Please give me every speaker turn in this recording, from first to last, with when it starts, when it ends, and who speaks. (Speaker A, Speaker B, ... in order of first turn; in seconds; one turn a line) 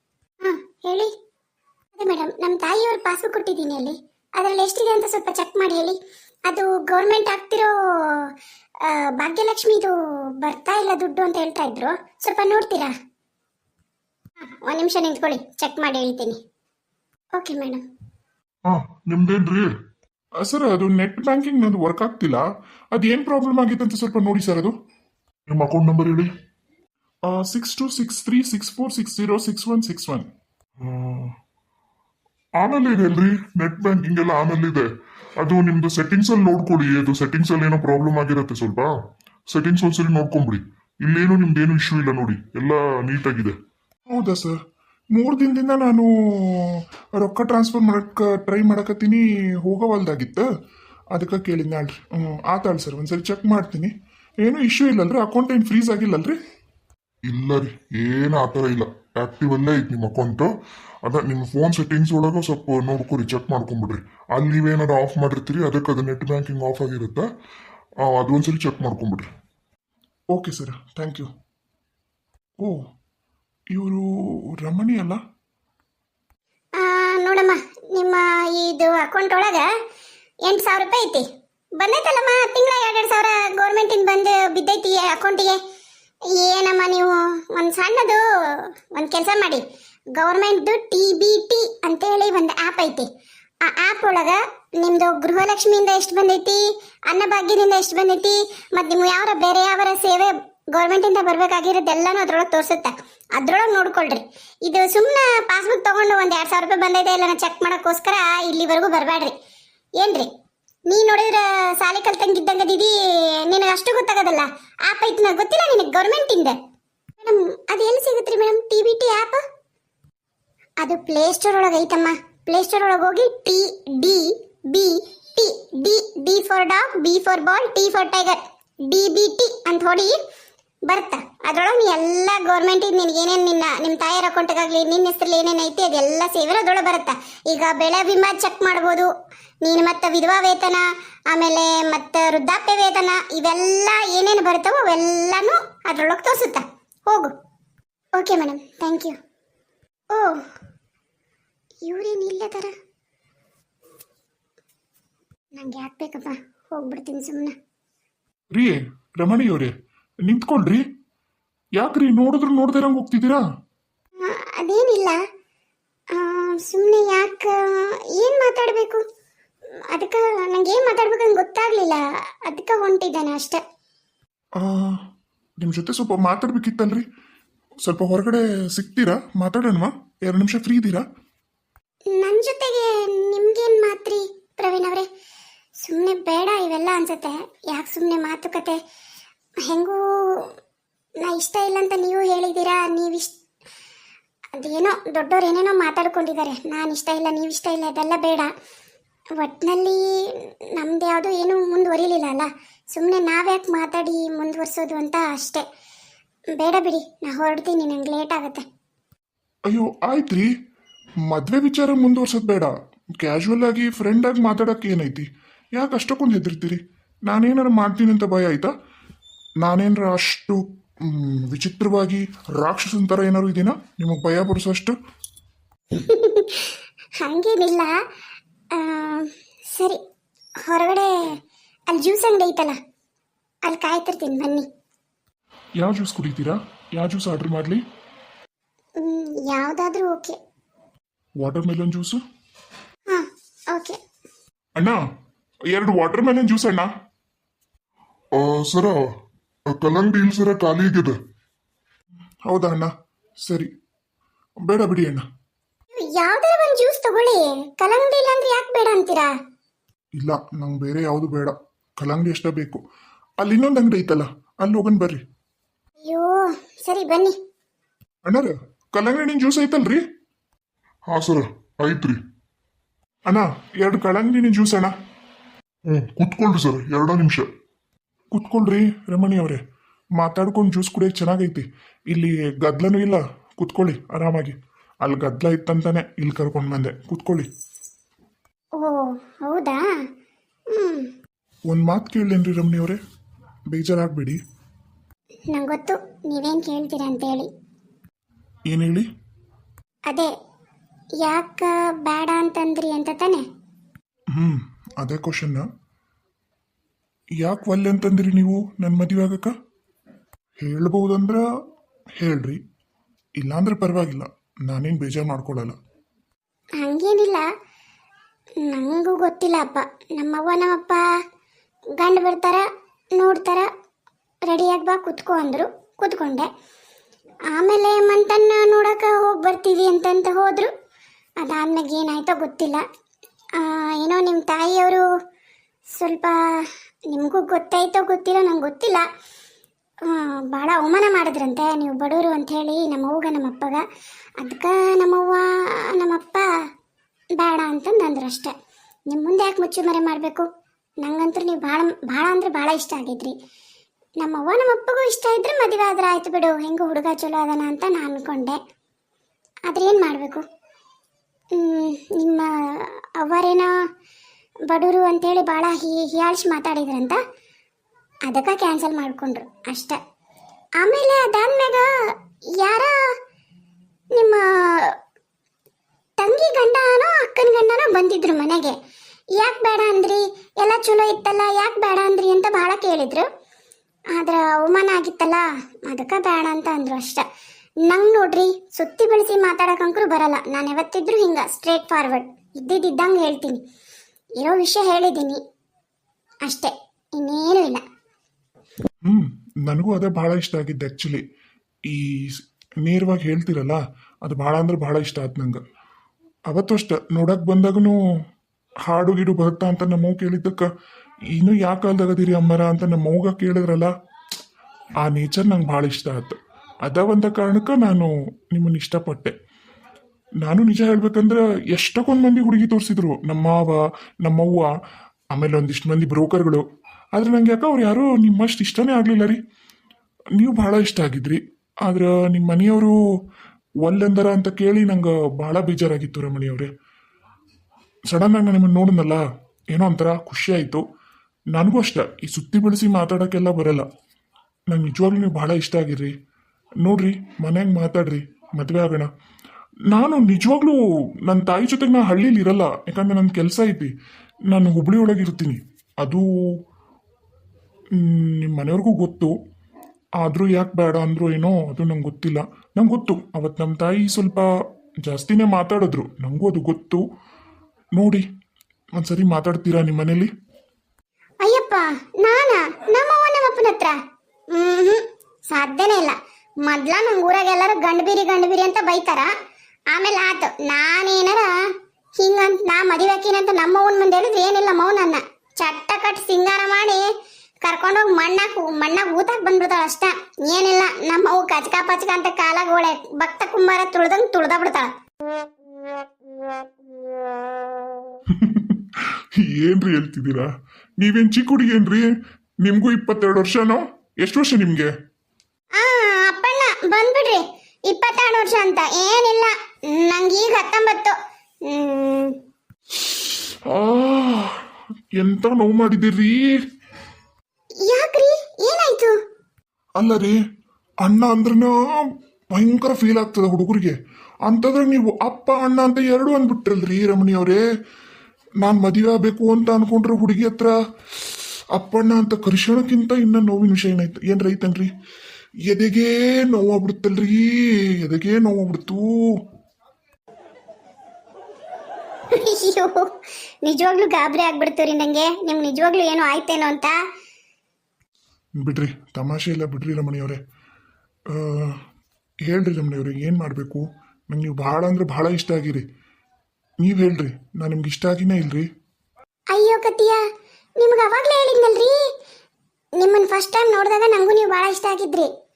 Speaker A: 0.4-1.1
Speaker A: 2.0-12.9
Speaker A: 14.4-16.4
Speaker A: 17.4-17.9
Speaker B: 18.7-19.7
Speaker C: 20.4-24.7
Speaker B: 25.5-26.3
Speaker C: 27.3-30.3
Speaker C: 30.8-31.2
Speaker B: 32.6-39.0
Speaker B: 39.5-43.5
Speaker C: 44.1-44.6
Speaker C: 45.1-50.5
Speaker C: 51.1-53.9
Speaker C: 54.4-56.4
Speaker B: 57.3-60.5
Speaker B: 61.0-67.3
Speaker B: 68.0-69.3
Speaker C: 70.3-71.3
Speaker C: 73.7-75.2
Speaker A: 76.8-79.7
Speaker A: 80.4-81.3
Speaker A: 81.8-85.6
Speaker A: 86.3-89.6
Speaker A: 90.2-93.1
Speaker A: 93.6-109.3
Speaker A: 110.0-110.3
Speaker A: 110.9-116.6
Speaker A: 117.2-119.4
Speaker A: 120.8-130.2
Speaker A: 130.9-147.3
Speaker A: 148.1-149.2
Speaker A: 150.1-150.4
Speaker A: 151.8-152.7
Speaker A: 155.5-157.6
Speaker C: 158.5-159.7
Speaker C: 160.2-160.8
Speaker C: 161.8-163.4
Speaker A: 164.2-165.2
Speaker A: 166.1-169.1
Speaker A: 169.7-173.6
Speaker C: 174.6-175.0
Speaker C: 175.6-177.1
Speaker C: 177.8-181.1
Speaker A: 182.1-185.1
Speaker A: 185.8-188.8
Speaker A: 189.6-190.5
Speaker A: 191.2-193.3
Speaker A: 194.6-198.5
Speaker A: 199.4-205.7
Speaker A: 206.5-208.7
Speaker C: 209.7-210.5
Speaker C: 211.3-218.7
Speaker C: 219.6-225.0
Speaker A: 225.9-227.9
Speaker A: 228.7-230.0
Speaker A: 230.6-231.4
Speaker A: 231.9-232.8
Speaker A: 233.7-234.7
Speaker C: 235.8-237.8
Speaker A: 239.0-240.4
Speaker C: 241.4-242.2
Speaker A: 243.1-244.0
Speaker C: 245.7-246.9
Speaker B: 248.4-249.0
Speaker B: 249.7-251.2
Speaker C: 252.5-252.9
Speaker C: 253.4-253.7
Speaker C: 254.7-255.3
Speaker A: 255.9-259.4
Speaker C: 260.2-262.8
Speaker C: 263.4-265.2
Speaker A: 266.0-267.4
Speaker C: 268.2-270.0
Speaker B: 271.1-272.2
Speaker C: 273.3-274.9
Speaker B: 275.9-277.5
Speaker C: 278.3-279.6
Speaker C: 280.2-287.5
Speaker A: 288.8-289.9
Speaker A: 290.7-291.1
Speaker C: 291.7-293.0
Speaker C: 293.7-294.4
Speaker A: 295.5-297.5
Speaker C: 298.7-299.1
Speaker A: 301.2-303.4
Speaker C: 304.3-305.7
Speaker C: 307.4-309.6
Speaker C: 310.6-311.4
Speaker C: 312.2-312.6
Speaker C: 313.4-315.8
Speaker A: 316.8-317.4
Speaker A: 318.6-321.1
Speaker A: 322.0-323.7
Speaker A: 324.5-326.5
Speaker A: 327.5-330.7
Speaker A: 331.4-332.8
Speaker A: 333.6-335.1
Speaker A: 335.9-339.1
Speaker A: 340.0-343.8
Speaker A: 344.4-346.5
Speaker A: 347.4-348.5
Speaker A: 349.1-350.5
Speaker A: 351.0-353.4
Speaker A: 354.2-358.6
Speaker A: 359.7-360.5
Speaker A: 361.5-363.9
Speaker A: 364.7-367.2
Speaker A: 368.3-370.0
Speaker A: 370.8-373.1
Speaker A: 374.1-375.0
Speaker A: 376.2-378.8
Speaker A: 379.3-383.3
Speaker A: 384.1-387.2
Speaker A: 387.8-393.6
Speaker A: 394.4-395.4
Speaker A: 396.4-397.8
Speaker C: 399.0-401.2
Speaker C: 401.9-405.6
Speaker C: 406.5-408.0
Speaker C: 408.9-410.7
Speaker C: 411.3-413.9
Speaker C: 415.0-419.4
Speaker C: 420.4-424.7
Speaker C: 425.3-426.6
Speaker C: 427.2-429.4
Speaker C: 430.4-433.0
Speaker C: 433.8-436.7
Speaker C: 438.1-440.8
Speaker C: 441.5-443.9
Speaker C: 444.7-446.1
Speaker C: 446.8-449.1
Speaker C: 449.9-453.9
Speaker C: 454.5-456.3
Speaker C: 458.0-459.4
Speaker C: 460.2-464.5
Speaker C: 465.1-467.0
Speaker C: 468.0-468.2
Speaker C: 469.0-470.3
Speaker A: 471.4-474.0
Speaker A: 474.5-479.3
Speaker A: 479.9-481.6
Speaker A: 482.2-487.1
Speaker A: 487.6-494.9
Speaker C: 498.3-500.5
Speaker C: 501.0-502.1
Speaker C: 502.6-504.9
Speaker A: 505.8-512.4
Speaker C: 513.0-514.6
Speaker C: 515.2-516.6
Speaker A: 517.8-519.2
Speaker C: 520.0-520.4
Speaker C: 521.0-527.6
Speaker C: 528.6-534.9
Speaker C: 535.7-539.4
Speaker A: 542.3-547.0
Speaker C: 548.6-550.4
Speaker C: 551.3-551.8
Speaker C: 552.5-555.8
Speaker C: 556.8-558.7
Speaker A: 559.5-560.2
Speaker A: 560.8-562.0
Speaker A: 563.0-565.3